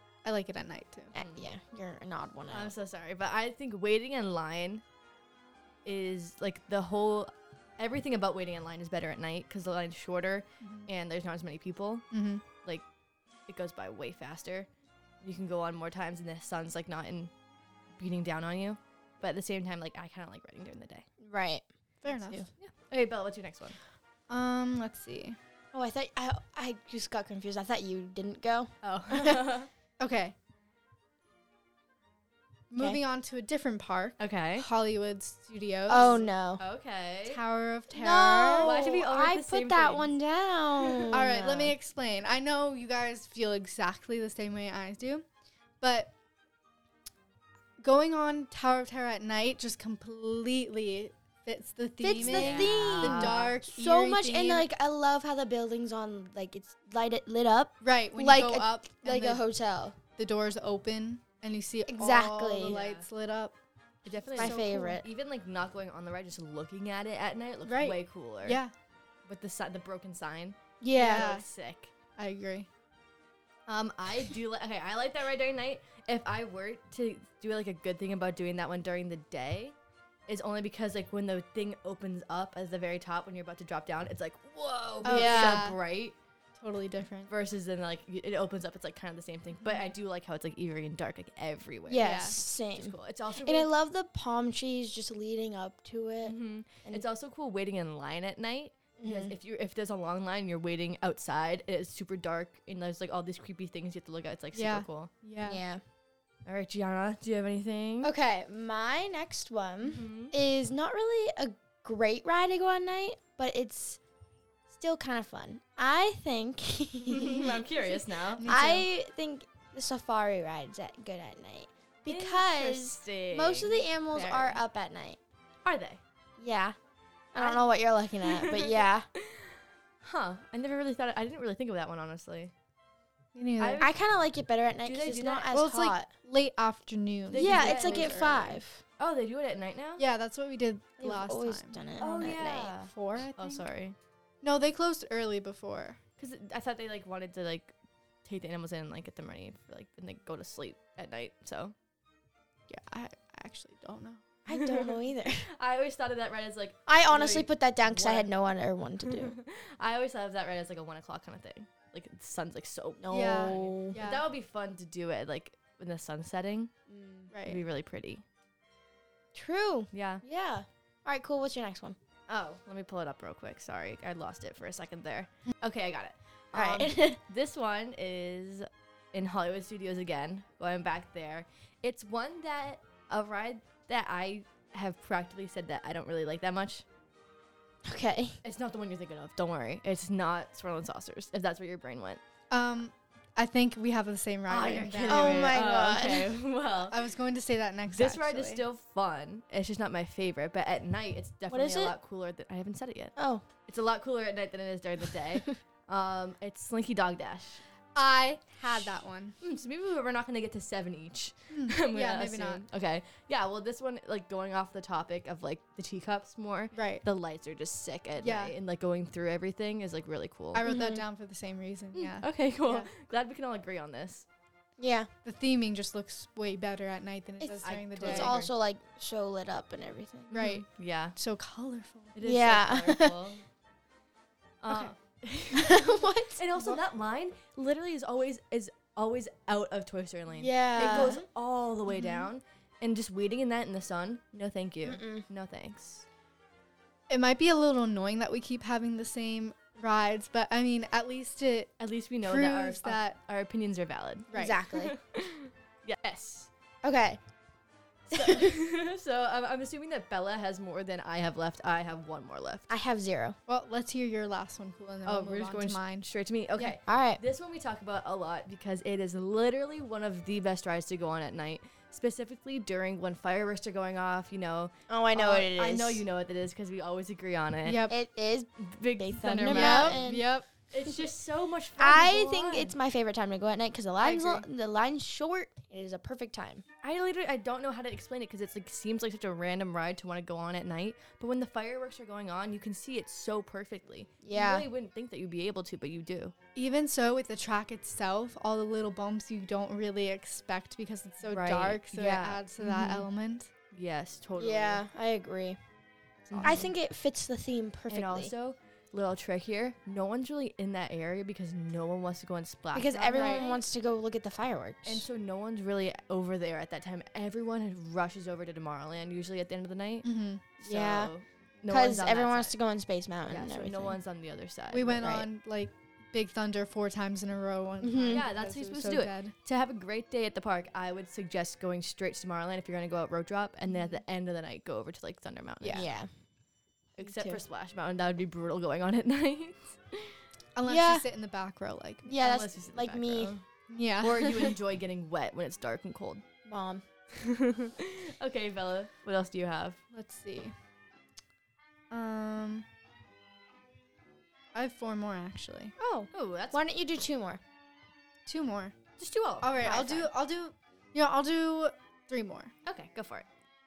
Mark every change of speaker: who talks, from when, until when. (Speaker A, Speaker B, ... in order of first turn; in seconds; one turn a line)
Speaker A: 0.2-1.1
Speaker B: 1.1-2.7
Speaker C: 1.1-1.5
Speaker C: 2.5-4.8
Speaker C: 5.8-12.1
Speaker A: 10.6-10.9
Speaker A: 12.1-12.4
Speaker C: 13.5-14.7
Speaker C: 15.2-17.3
Speaker C: 18.0-21.1
Speaker B: 21.2-22.5
Speaker A: 22.0-22.4
Speaker C: 22.6-23.8
Speaker A: 24.3-25.4
Speaker B: 25.7-29.4
Speaker C: 28.8-29.7
Speaker A: 30.0-30.4
Speaker A: 32.7-36.2
Speaker C: 34.2-34.7
Speaker B: 35.9-36.6
Speaker C: 36.0-37.4
Speaker A: 37.3-38.7
Speaker B: 37.9-41.7
Speaker C: 38.6-40.1
Speaker C: 40.8-41.1
Speaker A: 41.1-45.2
Speaker A: 45.8-46.1
Speaker A: 47.8-54.7
Speaker B: 52.0-60.0
Speaker C: 52.2-53.5
Speaker A: 57.8-59.4
Speaker A: 60.2-63.5
Speaker B: 61.9-62.8
Speaker C: 62.6-63.1
Speaker C: 64.0-68.6
Speaker A: 64.2-65.0
Speaker B: 64.4-65.1
Speaker A: 67.7-68.7
Speaker C: 69.3-71.9
Speaker B: 70.8-71.3
Speaker A: 71.0-71.5
Speaker A: 72.2-72.7
Speaker C: 73.7-79.8
Speaker C: 80.3-86.2
Speaker B: 85.0-85.6
Speaker A: 85.0-85.8
Speaker A: 86.6-87.3
Speaker C: 87.3-93.7
Speaker A: 89.6-89.9
Speaker B: 91.9-97.0
Speaker A: 92.0-92.4
Speaker C: 96.2-105.1
Speaker B: 99.0-99.3
Speaker A: 104.5-105.6
Speaker B: 105.4-105.8
Speaker C: 106.5-108.1
Speaker B: 108.0-114.0
Speaker C: 109.8-110.3
Speaker B: 114.7-125.2
Speaker C: 117.1-118.5
Speaker A: 118.4-118.9
Speaker C: 122.1-123.9
Speaker A: 124.2-124.6
Speaker C: 125.6-126.0
Speaker B: 126.4-126.8
Speaker B: 127.3-129.1
Speaker C: 127.3-127.7
Speaker C: 128.2-132.5
Speaker A: 133.3-133.9
Speaker C: 133.6-133.9
Speaker B: 133.8-136.1
Speaker C: 134.8-135.5
Speaker A: 135.5-138.5
Speaker C: 137.3-140.0
Speaker B: 137.3-138.8
Speaker A: 140.0-141.8
Speaker B: 141.0-142.7
Speaker C: 142.0-144.0
Speaker A: 142.8-143.7
Speaker A: 144.4-146.0
Speaker C: 146.2-151.8
Speaker A: 152.7-154.2
Speaker B: 154.5-155.5
Speaker C: 154.5-158.3
Speaker B: 156.9-159.4
Speaker C: 159.0-166.7
Speaker B: 163.0-164.0
Speaker A: 163.1-164.2
Speaker B: 166.9-167.3
Speaker A: 167.3-167.6
Speaker C: 167.5-168.2
Speaker B: 169.3-172.0
Speaker C: 169.9-170.2
Speaker C: 172.3-186.8
Speaker B: 176.5-177.2
Speaker B: 187.8-188.4
Speaker C: 188.4-192.2
Speaker A: 192.5-195.6
Speaker C: 194.5-197.0
Speaker B: 195.1-196.3
Speaker A: 196.9-198.6
Speaker C: 197.9-203.1
Speaker B: 201.5-201.9
Speaker B: 203.2-203.5
Speaker C: 203.7-207.6
Speaker A: 207.9-209.4
Speaker C: 208.7-220.7
Speaker A: 211.5-212.6
Speaker A: 216.7-217.0
Speaker A: 218.2-218.5
Speaker A: 220.5-222.9
Speaker B: 220.7-221.0
Speaker C: 221.9-224.3
Speaker B: 224.8-225.1
Speaker A: 225.2-228.4
Speaker C: 227.6-228.5
Speaker B: 228.0-230.3
Speaker C: 230.3-231.2
Speaker A: 230.3-232.2
Speaker C: 232.2-233.4
Speaker B: 232.2-233.1
Speaker C: 234.6-246.1
Speaker A: 234.7-234.9
Speaker B: 235.5-236.8
Speaker B: 240.4-241.2
Speaker A: 240.8-241.2
Speaker A: 241.9-242.3
Speaker B: 244.8-245.3
Speaker A: 247.1-253.2
Speaker C: 251.8-256.5
Speaker A: 254.3-254.6
Speaker B: 254.3-254.9
Speaker B: 256.8-257.2
Speaker B: 258.1-258.5
Speaker C: 258.1-262.7
Speaker B: 262.7-263.4
Speaker A: 263.5-266.8
Speaker C: 265.1-277.8
Speaker B: 266.9-267.2
Speaker B: 274.9-276.0
Speaker A: 277.6-277.9
Speaker B: 277.9-280.3
Speaker C: 278.6-280.1
Speaker A: 279.5-280.5
Speaker C: 280.7-282.7
Speaker B: 281.8-286.6
Speaker A: 284.0-284.4
Speaker C: 286.8-296.4
Speaker B: 294.2-294.7
Speaker A: 296.6-303.5
Speaker C: 301.3-303.1
Speaker C: 303.7-304.8
Speaker B: 304.4-305.6
Speaker A: 306.3-306.7
Speaker C: 306.3-306.7
Speaker B: 306.4-308.3
Speaker C: 307.9-313.6
Speaker B: 312.7-315.1
Speaker A: 313.1-313.4
Speaker C: 314.9-320.1
Speaker A: 320.0-320.4
Speaker B: 320.6-321.1
Speaker C: 320.6-322.5
Speaker B: 321.7-324.0
Speaker C: 323.3-325.1
Speaker A: 324.7-329.3
Speaker B: 325.0-325.3
Speaker B: 327.8-328.2
Speaker C: 328.1-335.9
Speaker A: 335.6-335.9
Speaker B: 335.7-336.1
Speaker C: 337.0-340.2
Speaker B: 337.0-337.4
Speaker A: 340.6-342.1
Speaker B: 340.7-341.0
Speaker B: 342.1-343.3
Speaker C: 342.2-343.4
Speaker A: 343.7-344.6
Speaker C: 344.0-346.2
Speaker B: 346.5-346.8
Speaker C: 347.1-349.8
Speaker A: 349.9-350.5
Speaker A: 351.9-352.6
Speaker A: 354.5-355.7
Speaker B: 355.8-357.4
Speaker C: 356.1-356.6
Speaker A: 358.3-358.8
Speaker C: 359.0-359.6
Speaker A: 359.4-362.5
Speaker B: 359.6-360.1
Speaker C: 362.7-363.3